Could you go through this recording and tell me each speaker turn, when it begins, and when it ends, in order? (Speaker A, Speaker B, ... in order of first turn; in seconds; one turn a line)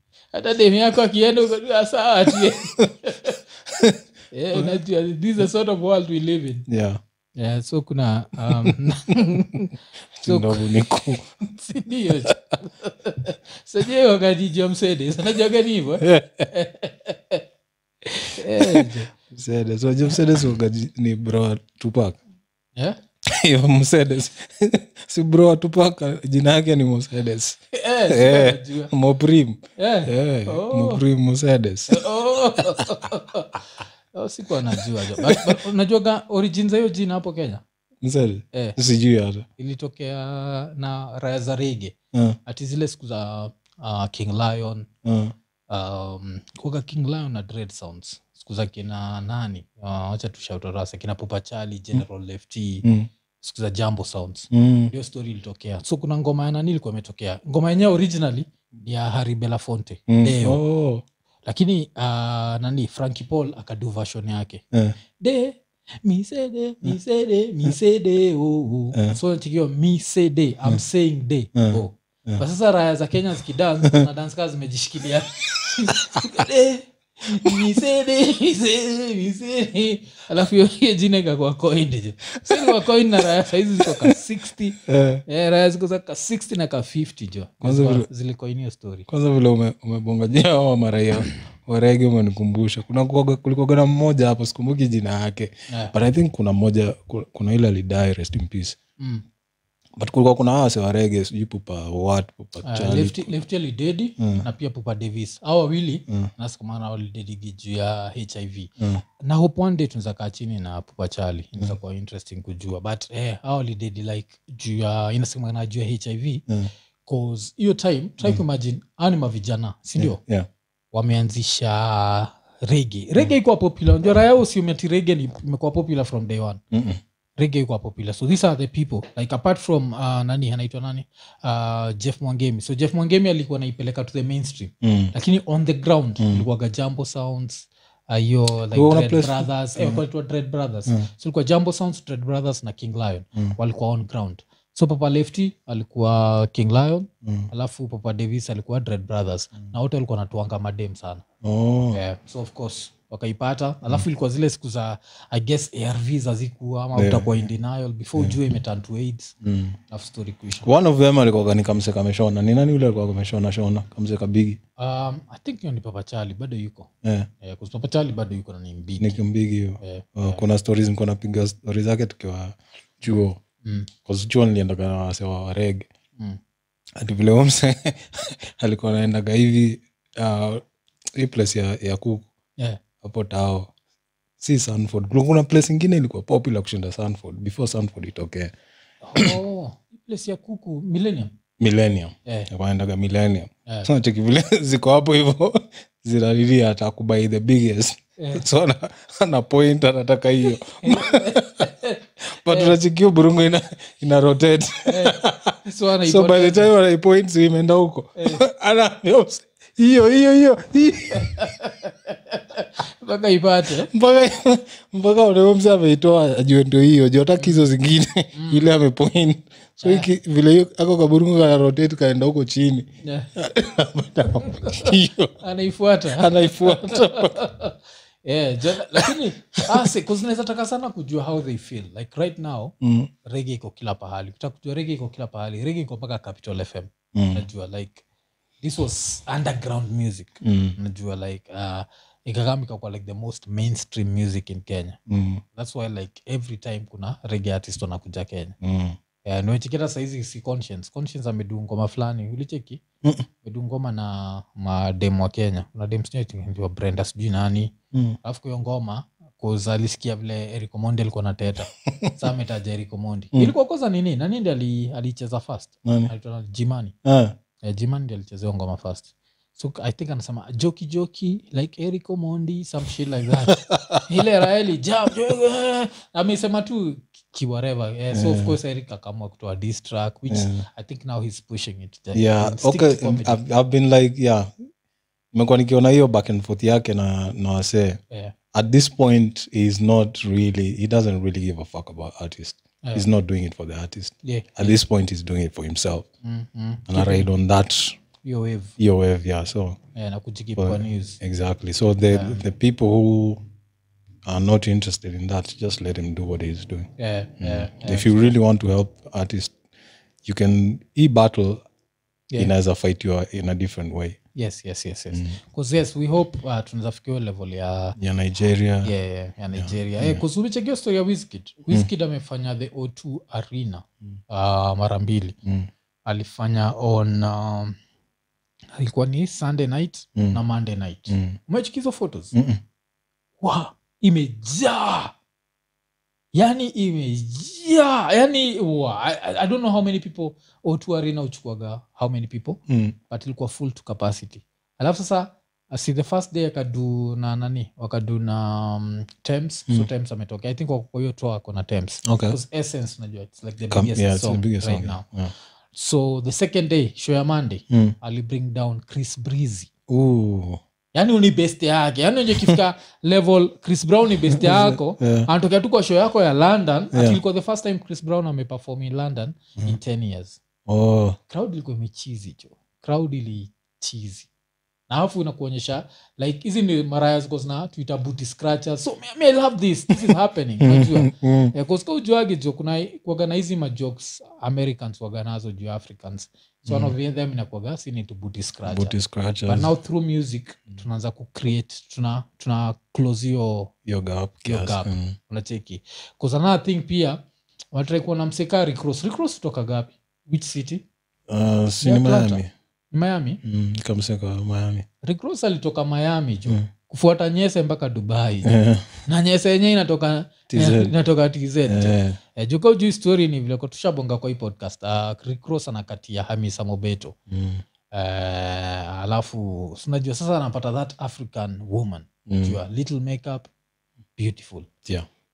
Speaker A: 0.3-3.4
Speaker B: 3.7-4.0
Speaker A: 4.3-6.7
Speaker B: 6.7-7.0
Speaker A: 7.4-9.7
Speaker B: 10.2-11.3
Speaker A: 10.3-10.7
Speaker A: 11.4-17.4
Speaker B: 16.0-16.5
Speaker A: 18.1-19.1
Speaker B: 18.6-22.2
Speaker B: 23.3-32.0
Speaker A: 27.7-28.9
Speaker A: 29.8-31.0
Speaker A: 31.9-37.6
Speaker B: 35.2-35.6
Speaker B: 38.0-39.5
Speaker A: 39.6-44.9
Speaker B: 45.0-45.3
Speaker A: 45.7-52.9
Speaker B: 52.8-53.1
Speaker A: 53.4-60.6
Speaker B: 54.5-54.9
Speaker B: 60.1-61.0
Speaker A: 61.5-64.6
Speaker A: 65.2-89.1
Speaker B: 71.5-72.4
Speaker B: 82.4-82.8
Speaker B: 83.8-84.1
Speaker B: 84.9-85.2
Speaker B: 87.6-88.1
Speaker B: 89.1-98.8
Speaker A: 99.0-99.2
Speaker B: 100.0-103.3
Speaker A: 102.6-116.4
Speaker B: 104.2-104.4
Speaker A: 117.1-120.2
Speaker B: 120.0-120.5
Speaker A: 120.9-126.6
Speaker B: 126.7-127.0
Speaker A: 127.4-151.2
Speaker B: 134.8-135.1
Speaker B: 136.2-136.5
Speaker B: 138.7-140.0
Speaker B: 147.2-147.5
Speaker B: 151.4-152.0
Speaker A: 151.9-159.3
Speaker B: 157.0-157.5
Speaker B: 159.4-159.8
Speaker A: 159.9-160.7
Speaker B: 160.7-164.6
Speaker A: 164.8-166.9
Speaker B: 167.0-167.3
Speaker A: 167.4-169.2
Speaker B: 169.0-173.4
Speaker A: 169.8-170.4
Speaker A: 173.6-173.9
Speaker B: 174.1-175.9
Speaker B: 177.0-180.6
Speaker B: 181.2-182.2
Speaker B: 183.0-183.7
Speaker B: 184.4-188.5
Speaker A: 189.0-191.3
Speaker B: 191.6-201.7
Speaker A: 198.2-198.4
Speaker A: 200.8-202.8
Speaker B: 202.4-211.3
Speaker A: 204.9-206.7
Speaker A: 208.2-208.4
Speaker A: 211.1-213.9
Speaker B: 213.9-225.4
Speaker A: 217.4-217.7
Speaker A: 218.3-218.7
Speaker A: 219.8-220.1
Speaker A: 223.0-223.3
Speaker A: 224.5-232.7
Speaker B: 226.2-227.4
Speaker B: 228.9-229.8
Speaker B: 232.8-233.1
Speaker A: 233.2-238.0
Speaker B: 237.1-237.4
Speaker A: 238.6-245.0
Speaker B: 240.4-240.8
Speaker B: 245.1-245.4
Speaker A: 245.5-248.6
Speaker B: 248.6-249.0
Speaker A: 249.2-252.8
Speaker A: 253.4-266.9
Speaker B: 265.9-266.1
Speaker B: 267.1-267.4
Speaker A: 267.6-283.4
Speaker B: 273.5-274.1
Speaker B: 278.1-278.6
Speaker B: 280.3-280.7
Speaker B: 282.1-284.5
Speaker B: 285.3-288.0
Speaker B: 288.5-296.1
Speaker A: 292.8-293.1
Speaker A: 294.2-294.8
Speaker A: 296.2-297.3
Speaker B: 296.9-298.0
Speaker A: 298.2-298.8
Speaker B: 298.8-299.8
Speaker A: 299.9-301.2
Speaker B: 300.6-303.4
Speaker A: 302.1-302.4
Speaker B: 304.3-309.6
Speaker A: 307.0-308.3
Speaker B: 310.2-311.6
Speaker B: 312.4-314.2
Speaker A: 314.4-318.0
Speaker B: 315.1-315.4
Speaker B: 318.0-318.9
Speaker A: 318.8-325.4
Speaker B: 319.6-320.2
Speaker B: 325.4-325.7
Speaker A: 326.1-327.8
Speaker A: 328.8-332.3
Speaker B: 331.1-331.4
Speaker B: 332.3-332.6
Speaker A: 333.4-335.1
Speaker A: 336.3-355.1
Speaker B: 342.7-342.9
Speaker B: 352.0-352.4
Speaker B: 353.7-355.3
Speaker A: 355.7-359.7
Speaker B: 357.7-358.0
Speaker B: 359.9-360.6
Speaker A: 360.9-370.4
Speaker B: 364.3-365.3
Speaker B: 366.9-367.2
Speaker B: 370.7-371.2
Speaker A: 371.3-374.3
Speaker A: 374.9-388.9
Speaker B: 380.6-381.5
Speaker B: 386.7-386.9
Speaker B: 388.7-389.7
Speaker A: 389.5-393.7
Speaker B: 393.9-395.2
Speaker A: 394.4-400.9
Speaker B: 401.3-402.5
Speaker A: 401.8-403.4
Speaker B: 403.4-404.9
Speaker A: 405.0-408.5
Speaker B: 408.4-408.9
Speaker A: 409.1-417.1
Speaker B: 410.5-410.9
Speaker B: 411.7-412.2
Speaker B: 417.3-417.6
Speaker A: 417.9-423.5
Speaker B: 422.3-422.6
Speaker A: 424.2-424.7